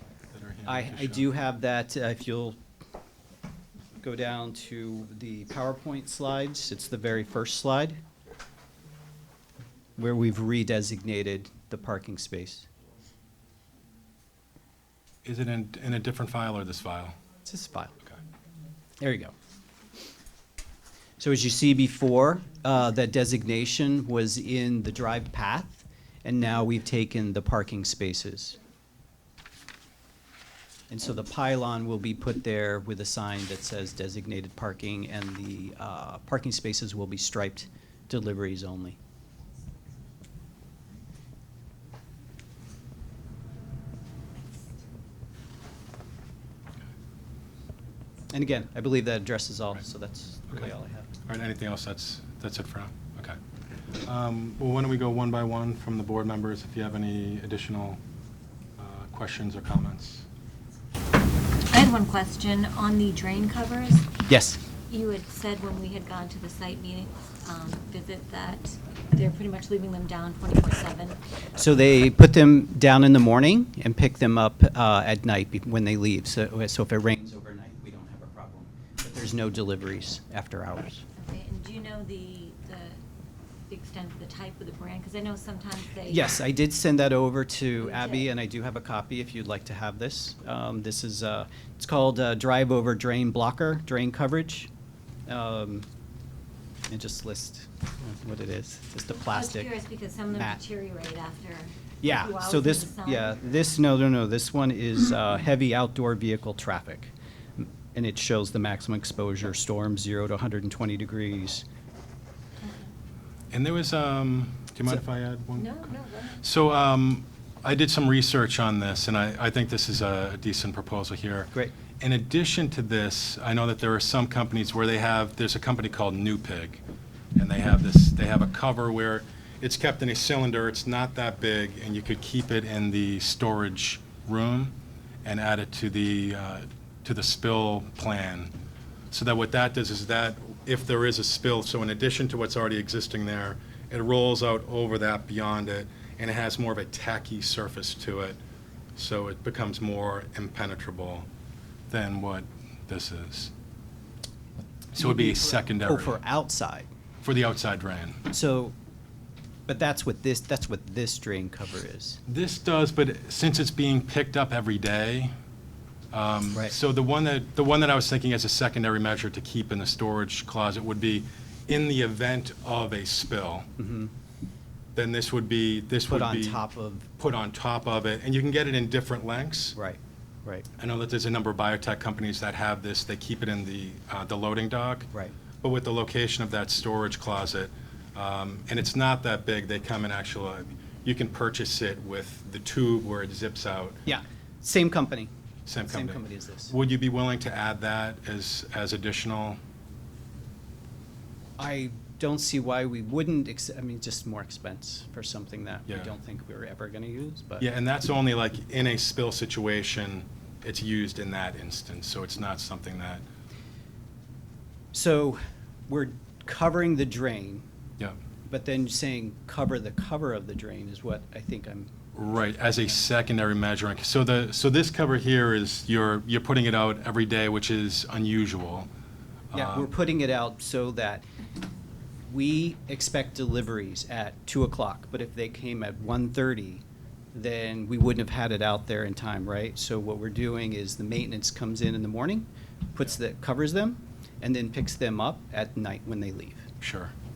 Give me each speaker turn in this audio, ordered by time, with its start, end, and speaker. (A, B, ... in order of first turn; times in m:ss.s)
0:00.3-0:01.3 A
0:00.6-0:02.6 B
0:04.0-0:08.0 B
0:10.0-0:12.7 B
0:15.2-0:17.2 A
0:17.4-0:18.0 B
0:19.0-0:19.3 B
0:21.2-0:28.6 B
0:30.9-0:39.0 B
0:48.3-0:51.1 B
0:51.2-0:53.4 A
0:54.0-0:58.0 A
0:58.8-1:00.2 A
1:01.7-1:04.1 C
1:04.3-1:04.6 B
1:04.9-1:11.2 C
1:11.6-1:21.0 B
1:21.2-1:23.0 C
1:23.7-1:26.3 C
1:26.0-1:34.7 B
1:27.8-1:28.3 C
1:35.3-1:35.8 B
1:36.9-1:39.7 B
1:39.2-1:43.4 C
1:40.3-1:40.6 B
1:42.0-1:51.6 B
1:52.6-1:52.9 C
1:53.5-2:06.8 A
1:55.6-1:56.4 C
2:07.4-2:18.5 A
2:19.1-2:28.4 A
2:29.0-2:31.3 A
2:31.9-2:33.5 A
2:34.9-2:36.2 A
2:35.0-2:36.9 B
2:37.2-2:38.3 A
2:38.3-2:38.8 B
2:39.7-2:42.2 B
2:42.2-2:45.3 A
2:46.1-2:53.7 A
2:53.8-2:54.1 B
2:55.0-2:56.6 A
2:56.1-2:57.1 B
2:57.2-2:59.8 A
2:59.8-3:00.7 B
3:00.8-3:05.1 A
3:05.6-3:14.0 A
3:14.1-3:15.3 B
3:15.7-3:19.6 A
3:15.9-3:16.7 B
3:21.6-3:27.6 B
3:27.6-3:33.2 A
3:34.9-3:37.6 B
3:38.5-3:42.0 B
3:42.1-3:48.9 A
3:49.5-3:49.9 A
3:49.5-3:51.2 B
3:52.3-4:06.7 B
4:06.8-4:07.1 A